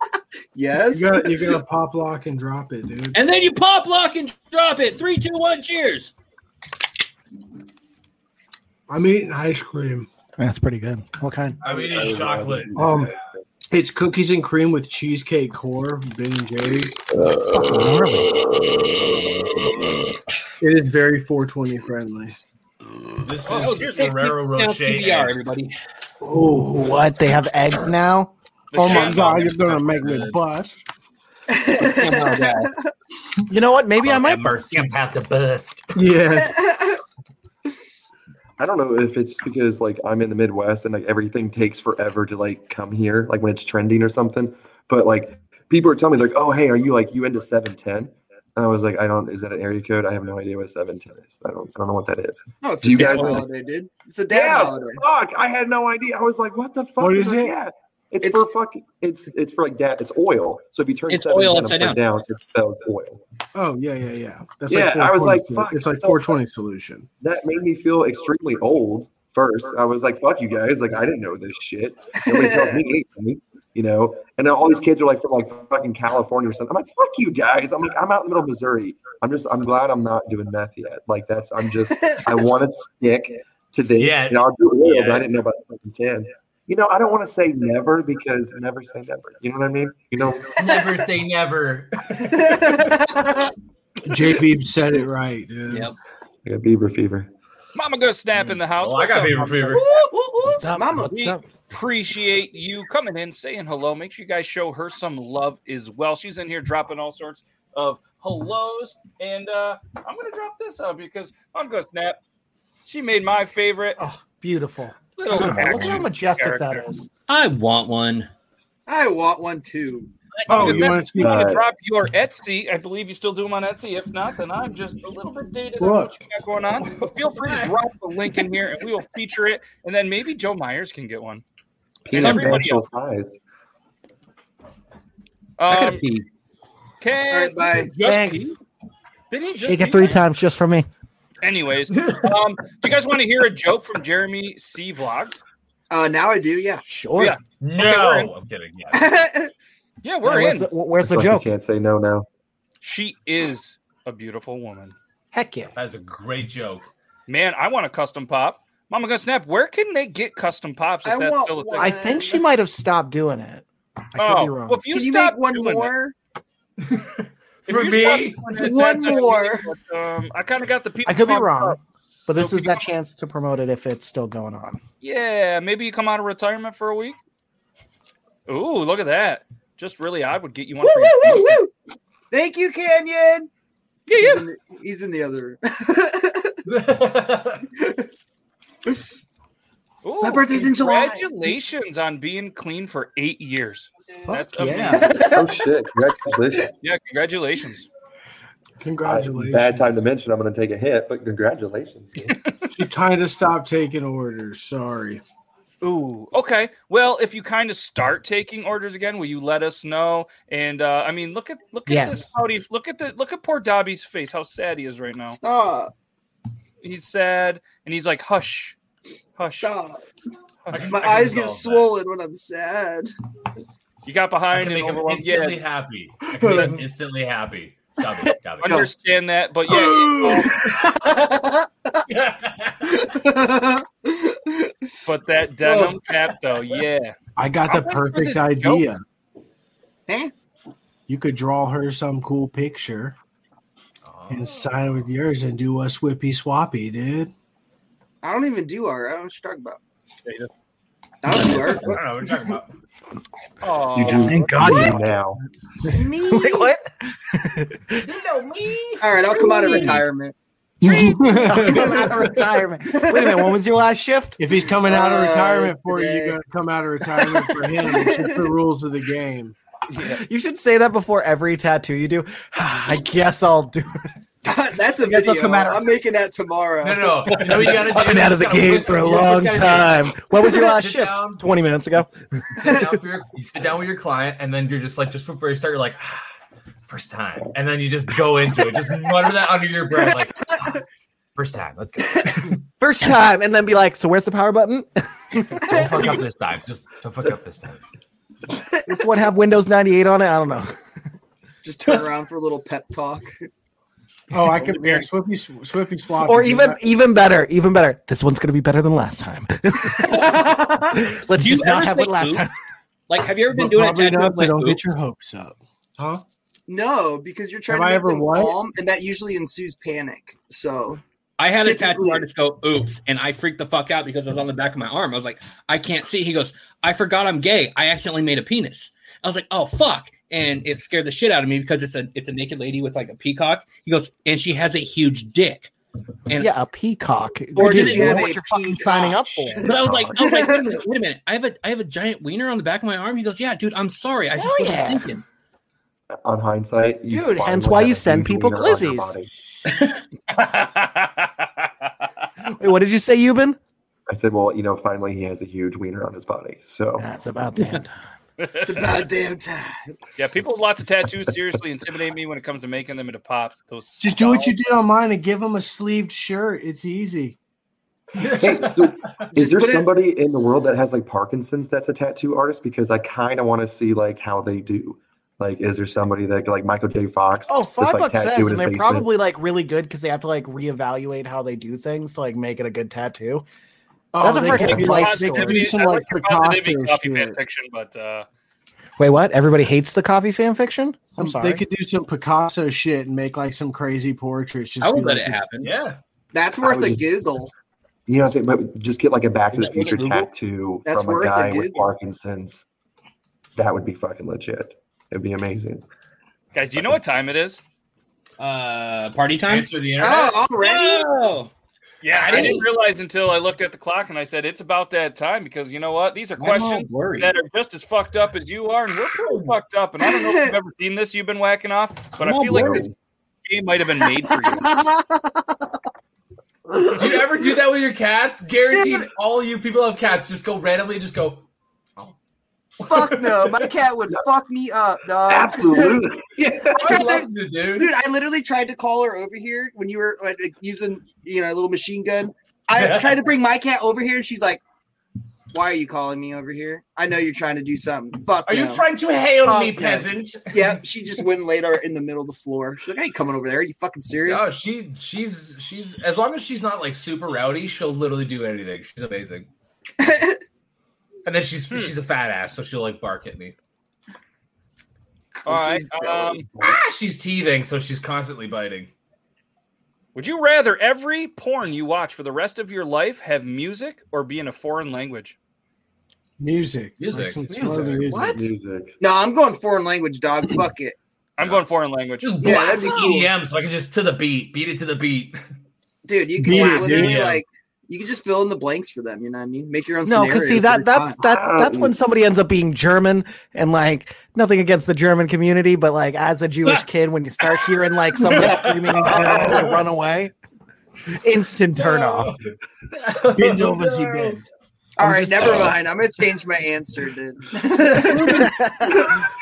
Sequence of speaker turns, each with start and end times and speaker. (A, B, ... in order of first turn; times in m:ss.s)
0:00.5-0:01.6 A
0:00.9-0:03.2 B
0:03.1-0:06.1 C
0:08.9-0:10.1 B
0:10.4-0:11.6 D
0:11.6-0:12.9 E
0:11.6-0:13.1 F
0:12.8-0:13.1 B
0:13.7-0:16.9 B
0:17.3-0:18.3 D
0:20.6-0:22.4 B
0:23.2-0:25.4 E
0:23.5-0:25.8 C
0:23.6-0:24.1 G
0:26.2-0:28.3 D
0:28.7-0:29.6 G
0:28.8-0:30.8 B
0:28.8-0:30.4 E
0:31.5-0:32.9 A
0:31.8-0:32.7 C
0:33.5-0:34.9 D
0:34.0-0:35.9 E
0:36.0-0:36.6 B
0:36.3-0:37.0 A
0:38.6-0:53.4 F
0:52.6-0:55.0 A
0:54.3-1:03.2 F
0:57.0-0:57.5 B
0:58.2-0:58.5 A
1:01.1-1:02.0 C
1:03.5-1:07.1 B
1:04.7-1:06.3 F
1:07.2-1:30.8 F
1:12.2-1:12.8 A
1:21.9-1:22.4 A
1:23.9-1:25.3 E
1:30.6-1:32.8 E
1:32.3-1:33.5 A
1:34.0-1:35.9 B
1:35.7-1:35.9 C
1:36.4-1:37.3 F
1:37.7-1:39.8 G
1:38.7-1:39.9 E
1:39.7-1:41.2 A
1:40.6-1:41.4 D
1:41.1-1:52.2 G
1:52.8-1:54.0 G
1:54.0-1:57.0 D
1:55.2-1:56.9 G
1:57.3-1:58.3 C
1:58.9-2:00.1 A
2:00.4-2:01.4 B
2:00.5-2:11.4 G
2:01.2-2:01.6 F
2:05.8-2:06.2 B
2:07.4-2:07.7 C
2:12.0-2:13.4 F
2:12.1-2:12.8 G
2:12.2-2:12.6 E
2:15.6-2:16.0 G
2:15.7-2:16.2 C
2:17.0-2:18.6 G
2:17.3-2:17.9 A
2:18.0-2:18.6 D
2:19.3-2:20.2 G
2:19.6-2:20.9 D
2:21.4-2:25.4 G
2:25.9-2:26.8 A
2:26.8-2:27.4 D
2:27.2-2:28.3 G
2:27.6-2:29.1 E
2:28.9-2:29.5 A
2:30.0-2:30.7 G
2:30.2-2:31.5 D
2:31.0-2:32.2 F
2:32.8-2:34.9 G
2:35.3-2:35.7 D
2:35.8-2:36.9 E
2:37.3-2:41.9 G
2:41.0-2:42.4 A
2:41.8-2:44.8 D
2:44.2-2:45.9 G
2:44.9-2:46.1 A
2:46.8-2:48.5 E
2:47.7-2:51.8 G
2:48.5-2:49.6 A
2:51.0-2:54.8 D
2:52.3-2:52.9 G
2:55.0-2:57.2 G
2:58.5-3:01.6 G
3:00.8-3:01.7 A
3:02.3-3:03.5 A
3:04.1-3:04.4 G
3:04.1-3:06.5 A
3:06.7-3:07.6 E
3:10.0-3:15.1 G
3:10.2-3:11.3 A
3:14.3-3:15.0 D
3:14.6-3:15.0 B
3:14.8-3:15.5 A
3:15.3-3:16.7 F
3:16.8-3:17.9 G
3:18.8-3:19.9 B
3:19.0-3:22.4 F
3:22.7-3:25.2 B
3:25.8-3:35.4 G
3:31.9-3:32.3 D
3:35.3-3:35.9 A
3:36.8-3:38.8 G
3:39.4-3:39.8 G
3:39.5-3:40.0 A
3:40.7-3:40.9 G
3:40.7-3:41.9 E
3:40.9-3:43.1 A
3:44.0-3:45.6 G
3:44.5-3:48.9 E
3:46.4-3:46.8 A
3:48.6-3:50.5 G
3:49.7-3:52.0 A
3:52.1-3:52.9 E
3:52.9-3:54.7 A
3:55.0-3:58.9 G
3:55.6-3:56.0 A
3:57.4-3:59.0 B
4:01.1-4:03.2 B
4:04.0-4:05.0 E
4:04.3-4:07.3 B
4:08.2-4:09.8 A
4:11.2-4:12.0 A
4:11.6-4:12.7 E
4:13.6-4:14.9 G
4:13.9-4:15.4 F
4:14.1-4:15.1 D
4:15.9-4:16.7 A
4:15.9-4:18.1 D
4:19.0-4:20.3 A
4:19.6-4:20.0 C
4:20.8-4:24.4 D
4:21.2-4:22.0 B
4:21.5-4:22.3 A
4:22.8-4:23.5 A
4:24.4-4:29.6 B
4:24.8-4:26.4 A
4:27.2-4:28.4 A
4:29.9-4:30.2 G
4:30.0-4:34.1 D
4:34.4-4:37.7 A
4:35.0-4:35.7 D
4:36.8-4:41.4 E
4:37.4-4:42.1 D
4:42.5-4:46.3 E
4:46.9-4:50.8 E
4:49.9-4:50.8 A
4:51.4-4:52.6 E
4:52.8-4:56.0 D
4:55.6-4:56.2 A
4:55.7-4:57.8 E
4:58.9-5:00.7 D
5:01.6-5:03.3 A
5:04.3-5:06.8 B
5:06.2-5:12.5 D
5:10.1-5:10.9 A
5:11.3-5:12.5 C
5:13.1-5:14.8 C
5:13.5-5:16.2 B
5:16.7-5:21.0 A
5:17.7-5:18.6 B
5:21.4-5:35.7 C
5:21.6-5:22.3 A
5:36.3-5:36.5 C
5:36.4-5:39.7 D
5:37.5-5:40.7 A
5:37.6-5:38.2 C
5:39.6-5:45.2 C
5:39.7-5:40.1 F
5:44.4-5:45.1 D
5:46.2-5:49.3 F
5:47.1-5:49.1 D
5:50.3-5:51.7 G
5:52.5-5:53.6 D
5:54.1-5:57.1 F
5:57.0-5:57.9 D
5:58.4-5:58.7 G
5:58.6-5:59.8 A
6:00.2-6:04.5 G
6:04.0-6:07.4 B
6:08.1-6:09.3 E
6:08.4-6:19.1 F
6:09.3-6:09.9 A
6:17.5-6:23.4 D
6:24.1-6:27.4 B
6:24.2-6:25.7 D
6:24.5-6:25.0 F
6:24.6-6:28.2 G
6:29.0-6:31.6 D
6:31.2-6:35.5 B
6:34.8-6:35.7 C
6:35.6-6:36.0 E
6:36.3-6:37.5 A
6:36.6-6:37.2 F
6:38.1-6:42.6 F
6:39.5-6:40.3 C
6:40.8-6:41.9 A
6:43.6-6:45.8 F
6:46.5-6:47.6 G
6:48.4-6:49.7 C
6:49.5-6:50.4 E
6:50.0-6:51.0 A
6:50.6-6:51.5 C
6:52.0-7:02.9 G
6:52.1-6:52.6 E
6:52.3-6:52.6 C
6:56.4-6:57.3 C
6:59.2-6:59.5 E
7:00.1-7:00.5 A
7:02.2-7:02.9 C
7:03.4-7:04.7 G
7:04.5-7:05.5 A
7:06.9-7:11.4 E
7:08.7-7:09.0 A
7:12.8-7:13.6 E
7:12.8-7:16.0 A
7:15.3-7:17.0 F
7:16.8-7:17.9 E
7:16.8-7:24.6 A
7:22.7-7:23.2 E
7:25.5-7:28.8 A
7:28.4-7:30.8 E
7:29.4-7:34.5 A
7:34.2-7:39.5 E
7:40.0-7:40.4 A
7:41.2-7:43.6 E
7:45.4-7:46.5 G
7:45.5-7:46.3 A
7:46.6-7:48.9 E
7:50.1-7:55.3 G
7:56.4-7:58.4 B
7:57.0-7:58.0 E
7:57.5-7:58.5 D
7:58.3-7:58.9 F
7:59.0-8:01.0 A
8:01.4-8:02.8 G
8:02.2-8:05.4 E
8:02.4-8:03.3 A
8:06.0-8:11.2 A
8:06.4-8:07.4 B
8:06.9-8:07.4 E
8:10.0-8:20.3 D
8:11.2-8:12.0 F
8:18.2-8:19.8 E
8:19.2-8:19.6 F
8:21.2-8:22.4 D
8:21.8-8:24.4 E
8:23.3-8:24.4 B
8:25.0-8:29.1 A
8:25.0-8:25.7 D
8:28.1-8:29.2 D
8:28.2-8:28.4 E